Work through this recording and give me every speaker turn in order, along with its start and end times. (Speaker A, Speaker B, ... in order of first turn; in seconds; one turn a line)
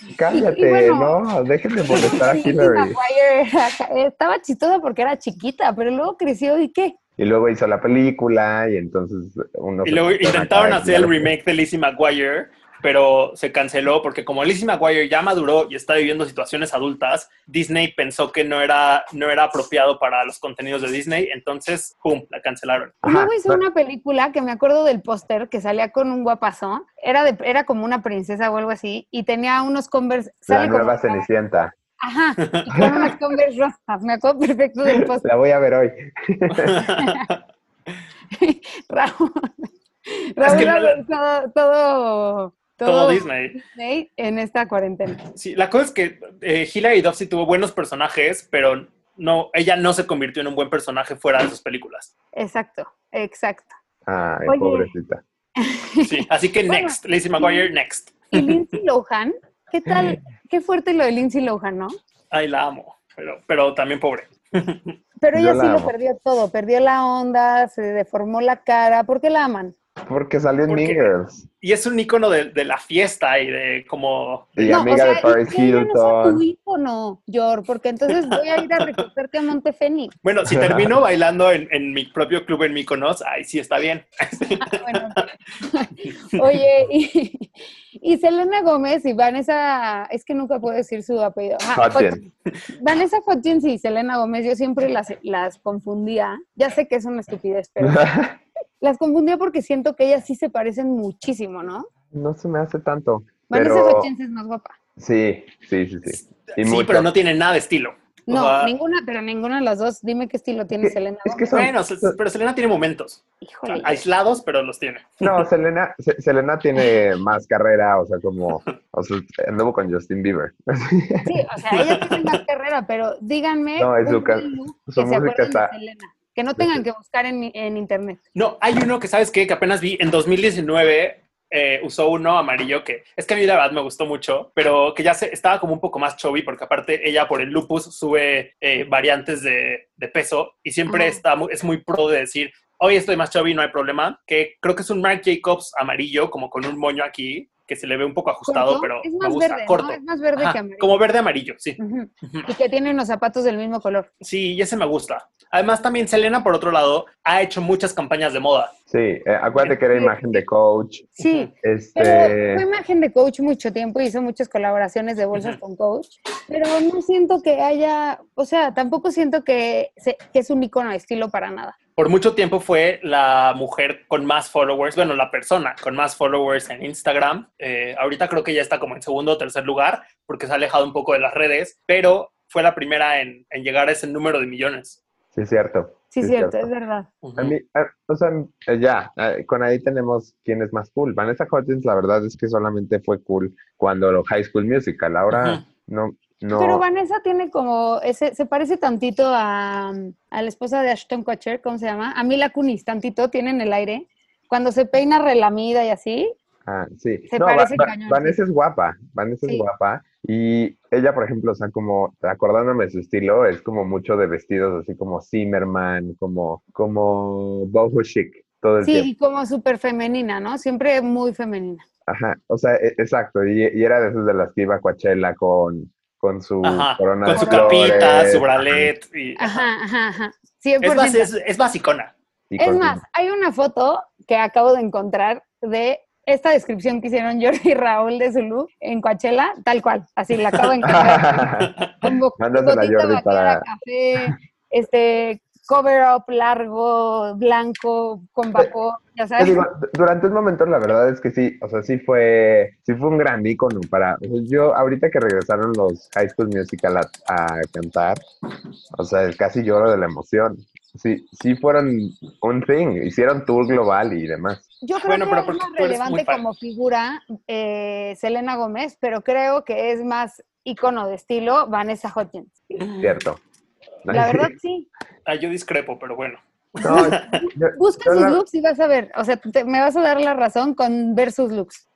Speaker A: 0.1-3.0
Speaker B: 0.3-1.2
Speaker B: 1.9-7.0
Speaker A: 7.2-11.3
Speaker C: 9.8-22.9
Speaker A: 23.0-23.6
Speaker B: 23.0-31.3
Speaker A: 30.5-31.8
Speaker B: 32.0-35.2
Speaker C: 32.4-33.1
Speaker A: 35.0-36.9
Speaker C: 36.5-37.3
Speaker B: 36.8-37.3
Speaker B: 38.4-45.2
Speaker C: 40.4-41.0
Speaker C: 42.9-43.6
Speaker C: 45.2-52.1
Speaker B: 52.4-53.7
Speaker A: 54.1-55.2
Speaker B: 54.5-54.9
Speaker B: 55.6-57.7
Speaker C: 56.0-58.6
Speaker B: 58.3-62.0
Speaker C: 62.3-65.0
Speaker B: 65.2-69.8
Speaker A: 65.3-65.9
Speaker A: 70.1-71.5
Speaker C: 70.7-74.8
Speaker A: 74.6-76.4
Speaker B: 74.7-80.1
Speaker C: 78.1-79.0
Speaker C: 80.2-85.3
Speaker A: 80.4-81.0
Speaker B: 84.6-98.2
Speaker A: 91.7-92.2
Speaker A: 97.8-98.3
Speaker B: 98.8-101.9
Speaker A: 102.1-104.1
Speaker B: 103.5-104.8
Speaker A: 105.0-107.1
Speaker C: 106.5-108.7
Speaker B: 108.3-111.7
Speaker A: 110.8-112.2
Speaker C: 111.5-115.5
Speaker B: 113.4-114.0
Speaker A: 115.2-121.3
Speaker B: 121.2-128.2
Speaker C: 121.7-122.4
Speaker A: 123.8-125.7
Speaker C: 128.3-152.5
Speaker B: 140.9-141.2
Speaker B: 148.5-151.0
Speaker B: 151.8-154.1
Speaker C: 154.2-158.7
Speaker A: 158.9-161.1
Speaker B: 159.9-160.4
Speaker B: 161.2-171.8
Speaker C: 161.2-161.5
Speaker A: 161.6-162.7
Speaker C: 165.3-165.6
Speaker C: 172.0-185.0
Speaker A: 185.3-186.7
Speaker B: 186.1-187.1
Speaker C: 187.2-187.6
Speaker A: 187.4-196.8
Speaker C: 195.3-195.6
Speaker B: 196.5-206.3
Speaker A: 206.7-219.1
Speaker B: 207.3-208.4
Speaker B: 218.8-221.8
Speaker A: 222.1-228.9
Speaker C: 226.6-229.7
Speaker B: 227.4-228.1
Speaker B: 229.4-231.3
Speaker C: 230.8-232.1
Speaker A: 232.5-233.0
Speaker B: 232.6-241.4
Speaker A: 240.9-241.7
Speaker C: 241.6-242.0
Speaker B: 242.0-249.7
Speaker A: 242.4-243.6
Speaker A: 249.4-258.2
Speaker A: 258.9-264.6
Speaker B: 264.8-272.8
Speaker C: 265.1-266.4
Speaker A: 273.0-273.4
Speaker A: 274.1-274.5
Speaker B: 274.1-274.9
Speaker C: 275.3-277.3
Speaker A: 276.8-278.4
Speaker B: 276.8-281.8